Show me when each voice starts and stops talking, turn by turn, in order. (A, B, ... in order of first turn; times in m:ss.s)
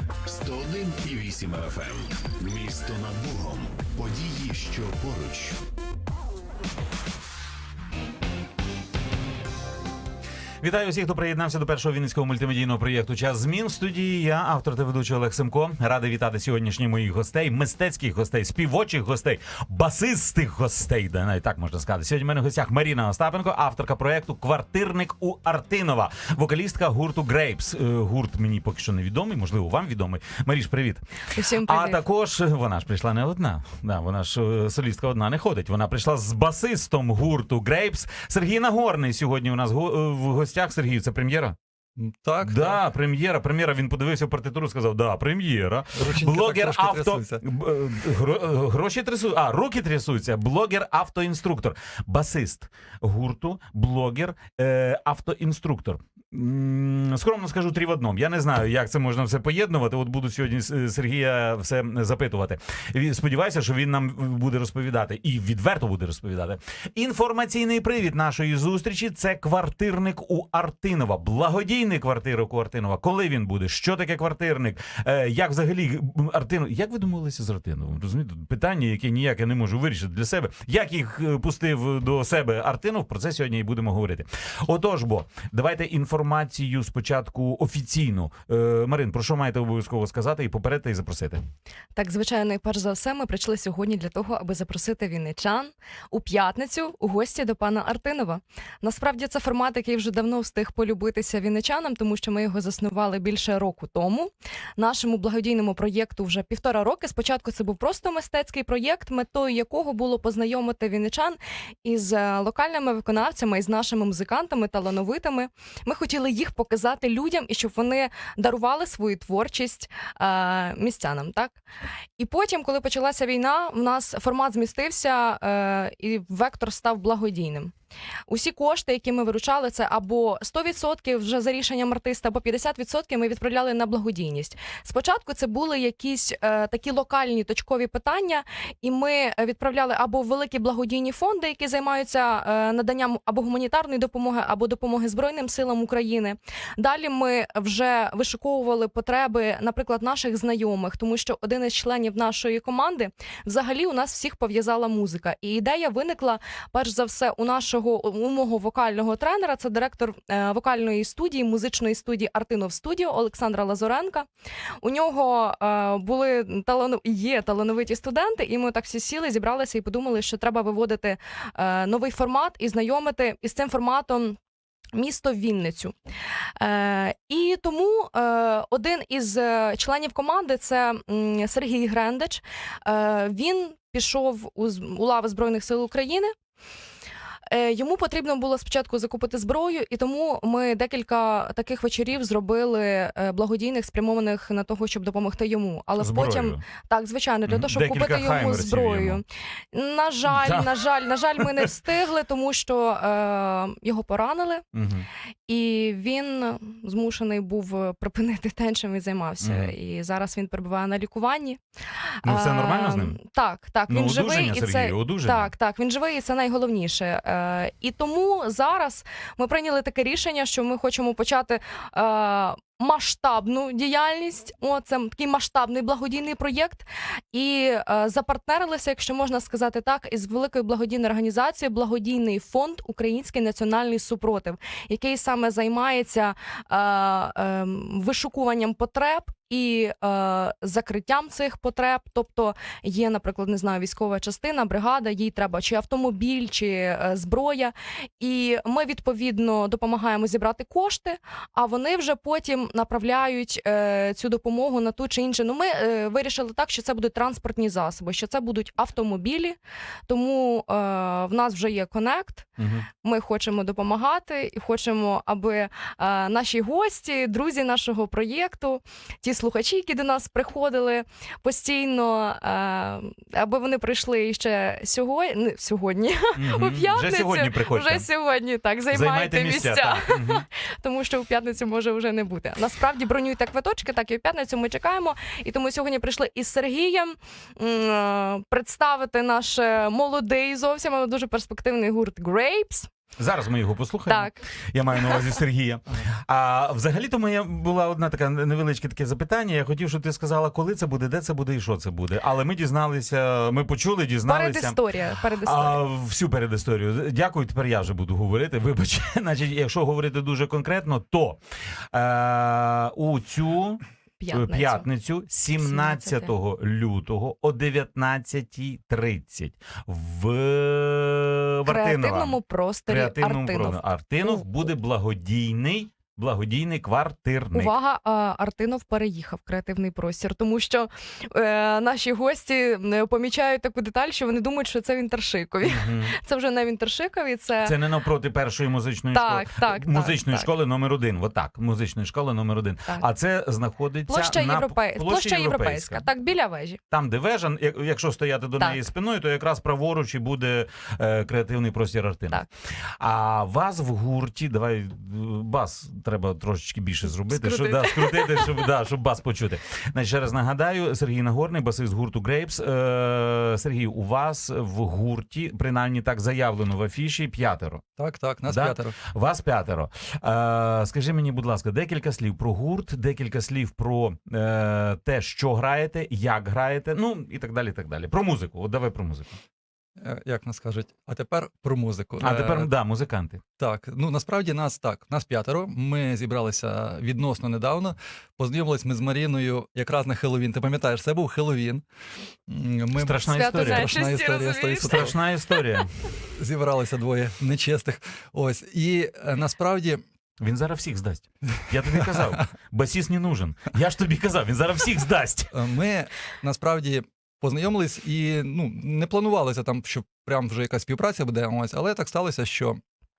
0:00.3-0:05.6 A
0:10.6-0:31.0 B
0:31.3-0:32.0 C
0:31.6-0:41.6 B
0:42.0-0:42.8 D
0:42.4-1:31.4 B
0:46.0-0:47.4 D
1:32.0-2:01.6 C
2:02.2-2:07.7 C
2:08.3-2:44.3 C
2:44.8-2:54.4 C
2:55.0-2:56.0 C
2:56.6-3:06.3 C
3:07.5-3:24.6 C
3:16.0-3:16.6 B
3:17.5-3:19.2 B
3:20.3-3:20.7 B
3:24.7-3:25.1 B
3:25.5-3:31.6 C
3:29.4-3:29.7 B
3:32.2-4:52.9 C
3:32.2-3:33.2 B
3:33.9-3:35.5 B
4:22.6-4:22.9 B
4:36.4-4:38.1 B
4:38.9-4:40.4 B
4:53.2-5:04.8 B
4:54.1-4:54.4 C
4:55.0-4:55.3 C
5:04.3-5:05.8 C
5:05.4-5:11.4 B
5:11.9-5:27.7 B
5:14.2-5:14.9 C
5:15.6-5:16.3 C
5:21.7-5:24.5 C
5:27.5-5:37.8 C
5:35.6-5:36.1 B
5:37.6-5:46.1 B
5:39.1-5:40.5 C
5:44.1-5:46.8 C
5:46.9-5:52.4 B
5:53.0-6:07.8 B
5:57.1-5:58.6 C
6:08.0-6:09.0 D
6:08.5-6:19.4 B
6:20.0-6:22.7 D
6:22.2-6:23.4 B
6:23.6-6:31.8 D
6:32.5-6:35.2 D
6:33.0-6:34.0 B
6:33.2-6:35.8 C
6:34.8-6:35.9 B
6:36.2-6:40.0 D
6:40.4-6:45.5 B
6:42.0-6:42.4 D
6:45.5-6:52.8 D